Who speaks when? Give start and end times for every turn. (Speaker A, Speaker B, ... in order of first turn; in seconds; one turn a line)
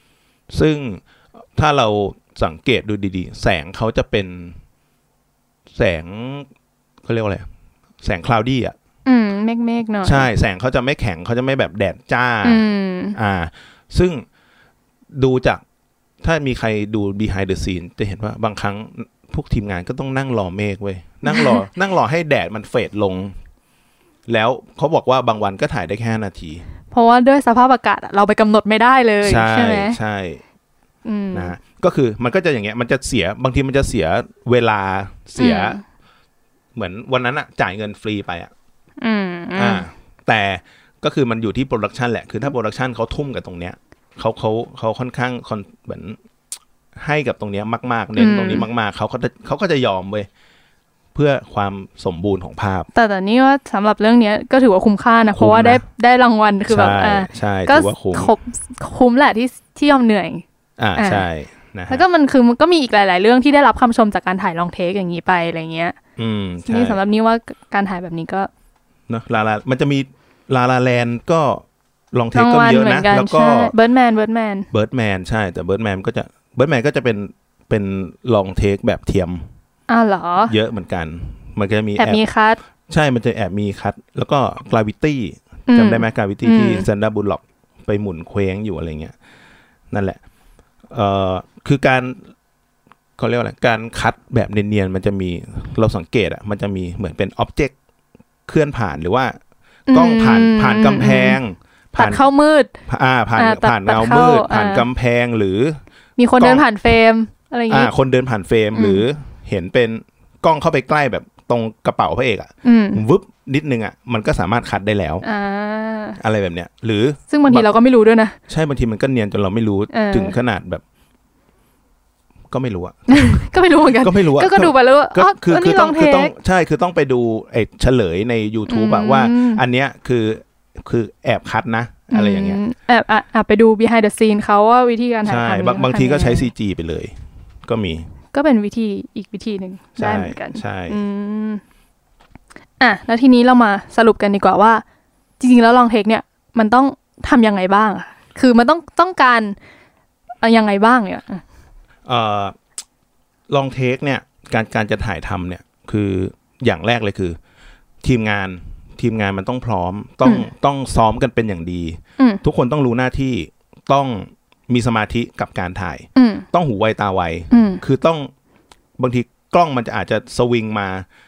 Speaker A: 0.5-1.0
Speaker A: 1.6-4.6
Speaker A: 5.7-6.5
Speaker A: 7.0-7.5
Speaker A: 8.0-8.8
Speaker B: 9.1-10.3
Speaker A: 10.0-14.2
Speaker B: 12.4-13.2
Speaker A: 15.1-15.6
Speaker A: 16.2-23.4
Speaker B: 21.3-21.6
Speaker A: 24.3-26.6
Speaker B: 26.9-30.0
Speaker A: 29.2-30.4
Speaker B: 31.1-31.6
Speaker A: 31.3-35.8
Speaker B: 35.4-35.8
Speaker A: 36.8-38.5
Speaker B: 39.0-39.9
Speaker A: 39.6-46.2
Speaker A: 47.0-50.3
Speaker B: 48.2-48.7
Speaker A: 51.1-52.9
Speaker B: 52.9-60.4
Speaker A: 55.3-55.8
Speaker A: 56.7-58.3
Speaker A: 60.8-62.0
Speaker B: 61.0-61.2
Speaker B: 61.9-66.0
Speaker A: 66.2-67.0
Speaker B: 66.7-68.5
Speaker A: 69.1-73.7
Speaker B: 72.3-74.7
Speaker A: 74.7-79.5
Speaker B: 79.9-80.5
Speaker A: 80.5-82.2
Speaker B: 82.0-82.6
Speaker A: 82.9-89.1
Speaker B: 85.7-86.9
Speaker A: 89.9-90.2
Speaker A: 90.9-92.2
Speaker A: 93.2-97.7
Speaker A: 98.5-99.4
Speaker B: 99.9-101.4
Speaker A: 99.9-102.3
Speaker B: 102.0-102.7
Speaker A: 102.9-105.8
Speaker B: 103.4-104.9
Speaker B: 106.2-107.9
Speaker A: 106.4-106.7
Speaker A: 107.7-115.2
Speaker B: 108.8-109.0
Speaker B: 112.6-113.0
Speaker B: 115.2-116.2
Speaker A: 116.2-117.7
Speaker B: 117.3-118.4
Speaker A: 118.5-120.8
Speaker B: 119.9-120.4
Speaker A: 122.5-123.4
Speaker B: 123.1-126.3
Speaker A: 124.0-132.6
Speaker B: 128.7-129.6
Speaker B: 132.1-136.5
Speaker A: 135.2-137.2
Speaker A: 137.7-138.1
Speaker B: 138.3-141.6
Speaker A: 140.0-141.0
Speaker B: 142.8-144.8
Speaker B: 145.4-149.6
Speaker B: 150.4-151.4
Speaker A: 152.1-152.6
Speaker A: 153.5-157.4
Speaker A: 158.0-168.3
Speaker B: 166.2-166.4
Speaker B: 167.5-167.8
Speaker A: 169.0-171.1